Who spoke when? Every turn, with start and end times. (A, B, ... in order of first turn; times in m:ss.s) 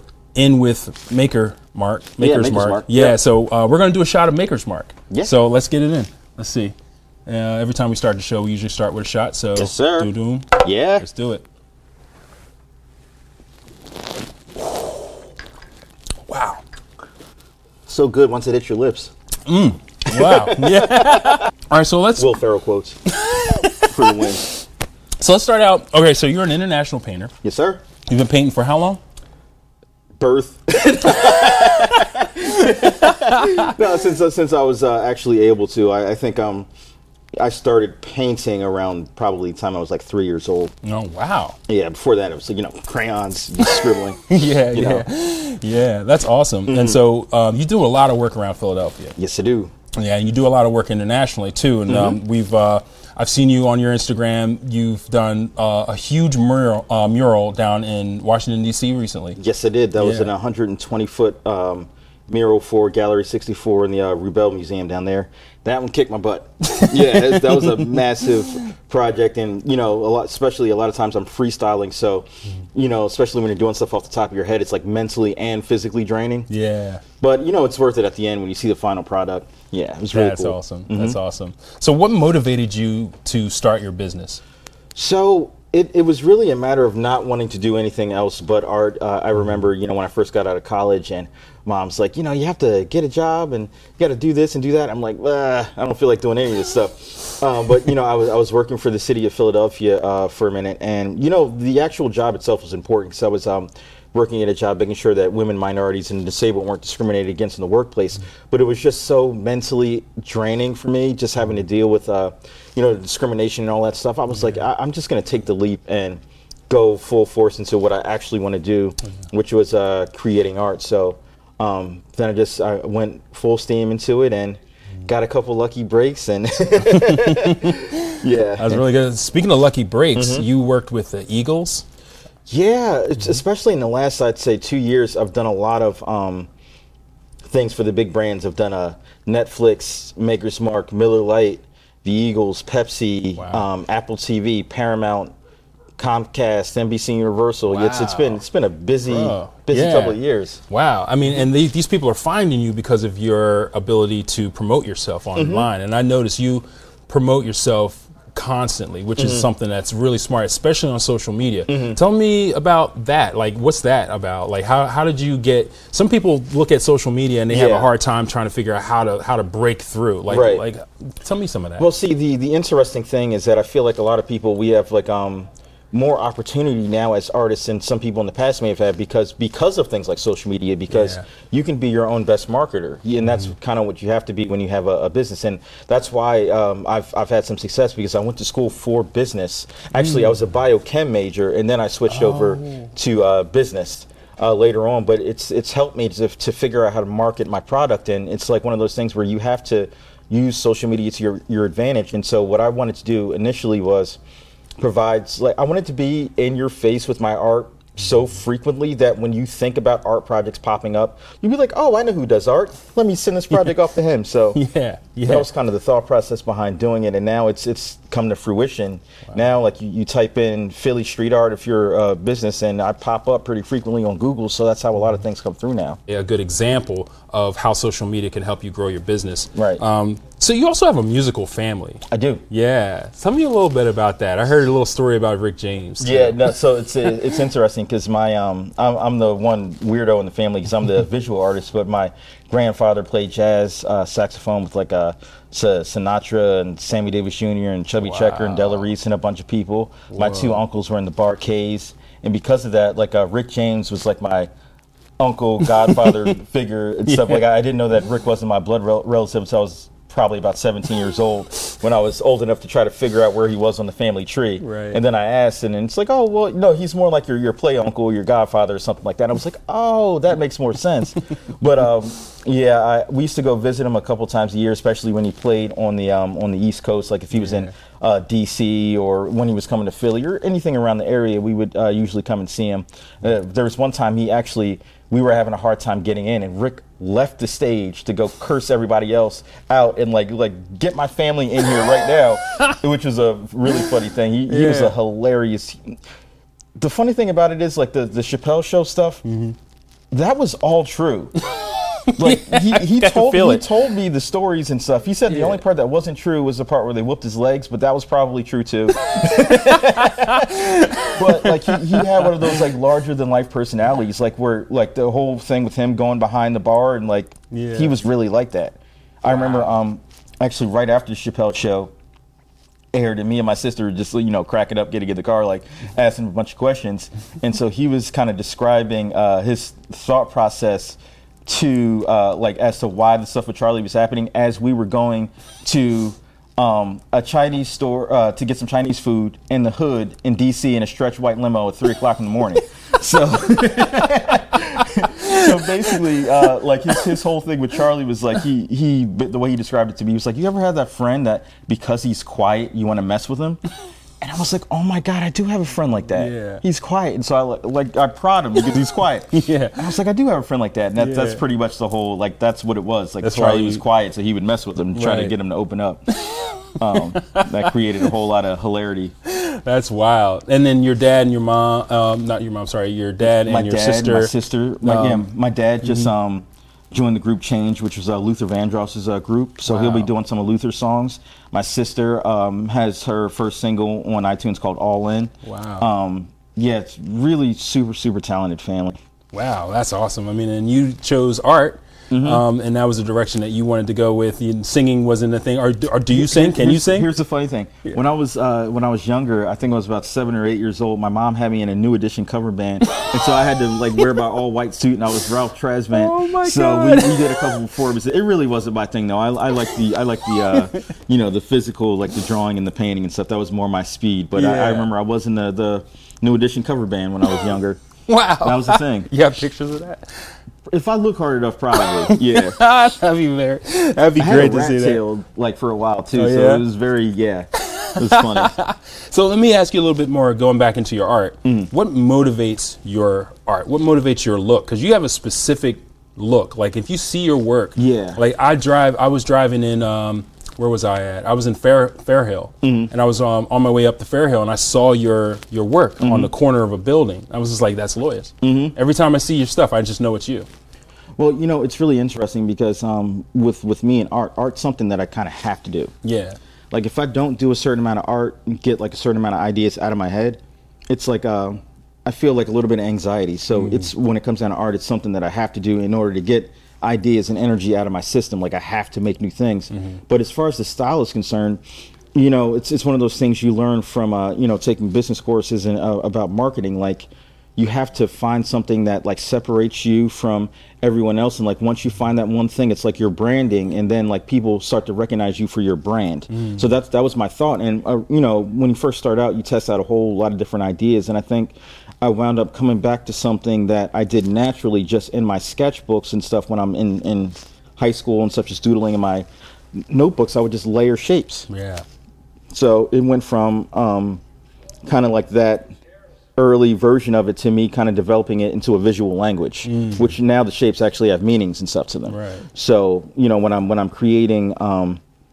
0:00.4-0:06.7 A
0:02.2-0:03.2 B
0:07.3-0:11.4 A
0:09.6-0:11.0 B
0:16.3-0:16.6 A
0:17.9-0:19.1 B
0:19.5-0:22.4 A
0:20.1-0:21.4 B
0:22.2-0:23.0 B
0:23.1-0:24.2 A
0:23.8-0:24.4 B
0:25.2-0:27.3 A
0:27.4-0:27.8 B
0:28.1-0:29.0 A
0:30.2-0:36.7 B
0:32.6-0:33.7 A
0:37.4-0:40.7 B
0:40.8-0:41.6 A
0:41.7-0:45.1 B
0:44.3-0:49.2 A
0:46.7-0:47.0 B
0:49.2-0:49.7 B
0:50.0-0:59.4 A
0:51.9-0:52.2 B
0:59.4-1:16.5 B
1:00.0-1:00.3 A
1:06.8-1:08.0 A
1:16.5-1:17.0 A
1:17.2-1:21.2 B
1:20.1-1:24.4 A
1:25.0-2:08.8 B
2:06.9-2:11.8 A
2:10.1-2:10.5 B
2:12.5-2:16.5 B
2:17.5-2:25.3 B
2:23.4-2:23.7 A
2:26.0-2:30.6 B
2:27.7-2:28.4 A
2:29.1-2:51.9 A
2:35.4-2:35.7 B
2:39.2-2:39.5 B
2:41.7-2:42.0 B
2:47.5-2:47.9 B
2:50.3-2:50.6 B
2:51.8-3:24.2 B
3:00.9-3:01.2 A
3:03.2-3:03.5 A
3:09.9-3:10.4 A
3:12.1-3:12.9 A
3:24.8-3:34.6 B
3:34.6-3:35.5 A
3:35.2-3:46.0 B
3:46.1-3:56.5 A
3:49.6-3:49.8 B
3:52.1-3:52.4 B
3:56.0-4:14.5 B
4:08.0-4:08.9 A
4:10.1-4:10.6 A
4:15.2-4:56.0 B
4:15.6-4:16.3 A
4:17.1-4:17.4 A
4:24.6-4:25.0 A
4:37.3-4:37.7 A
4:54.5-4:55.0 A
4:56.8-4:59.2 B
4:59.2-4:59.6 A
5:00.1-5:01.3 B
5:01.4-5:03.7 A
5:02.2-5:21.9 B
5:05.3-5:05.6 A
5:09.1-5:12.7 A
5:17.5-5:18.0 A
5:19.3-5:19.7 A
5:22.9-5:53.6 B
5:45.3-5:46.0 A
5:54.2-6:06.0 B
5:56.1-5:56.6 A
5:59.3-5:59.8 A
6:01.0-6:01.4 A
6:03.2-6:03.8 A
6:04.9-6:05.3 A
6:06.1-6:07.7 A
6:06.8-6:09.1 B
6:09.3-6:15.2 A
6:13.2-6:29.0 B
6:15.8-6:16.1 A
6:19.7-6:20.1 A
6:25.4-6:25.9 A
6:29.3-6:37.1 A
6:32.1-6:32.4 B
6:36.1-6:57.8 B
6:44.0-6:44.2 A
6:45.9-6:47.6 A
6:50.4-6:50.8 A
6:54.4-6:54.9 A
6:58.1-7:00.3 A
6:58.4-6:59.1 B
7:00.7-7:02.6 B
7:01.8-7:05.0 A
7:04.2-7:08.5 B
7:06.1-7:06.7 A
7:07.7-7:30.5 A
7:11.4-7:11.7 B
7:17.8-7:18.2 B
7:22.6-7:22.9 B
7:26.0-7:26.3 B
7:28.4-7:28.8 B
7:31.2-7:35.9 B
7:36.0-7:36.4 A
7:36.7-7:51.6 B
7:43.5-7:43.9 A
7:49.7-7:50.0 A
7:52.2-8:21.5 B
8:06.3-8:06.7 A
8:21.5-8:21.8 A
8:22.5-8:24.2 B
8:24.8-8:25.7 B
8:26.4-8:35.0 B
8:29.6-8:30.2 A
8:32.1-8:32.5 A